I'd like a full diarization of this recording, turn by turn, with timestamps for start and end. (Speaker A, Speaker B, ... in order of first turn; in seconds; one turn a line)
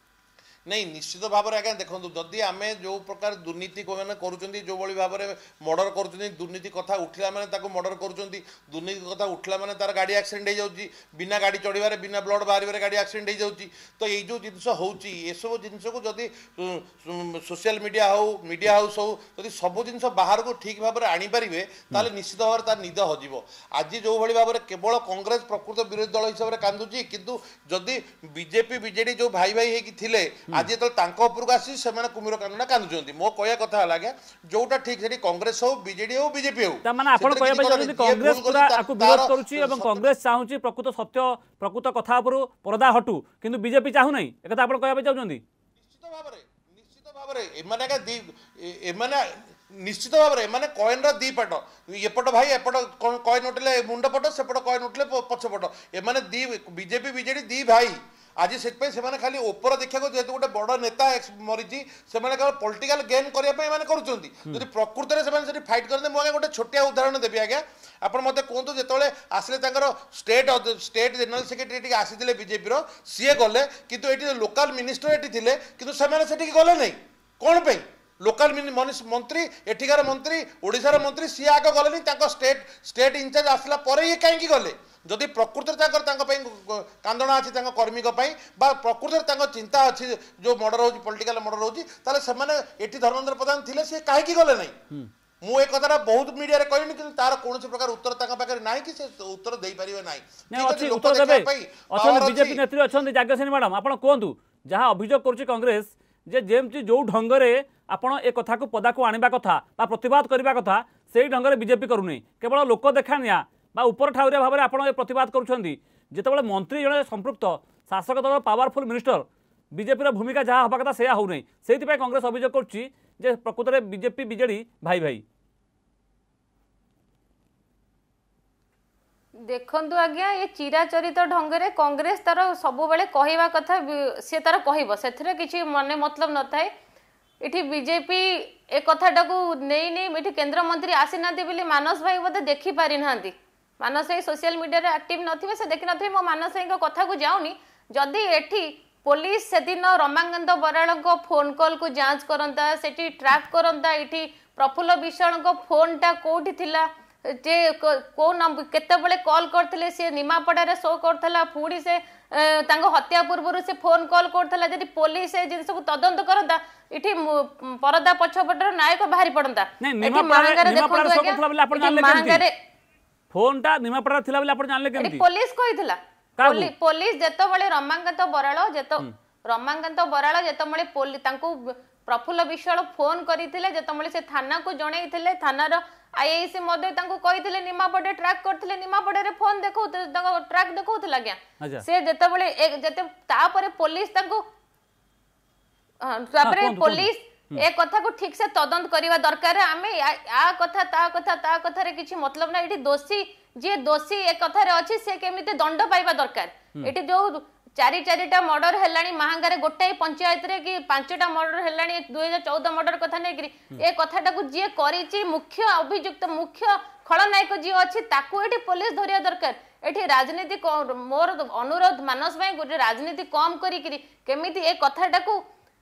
Speaker A: 0.7-40.1
Speaker B: 36.8-45.4
Speaker A: 45.8-94.8
Speaker A: 95.4-102.6
Speaker B: 100.5-125.2
Speaker C: 129.4-136.7
Speaker C: 137.4-172.5
Speaker B: 169.8-172.4
Speaker B: 173.3-175.2
Speaker C: 175.0-194.4
Speaker B: 176.4-176.7
Speaker C: 196.0-225.4
Speaker B: 196.4-197.6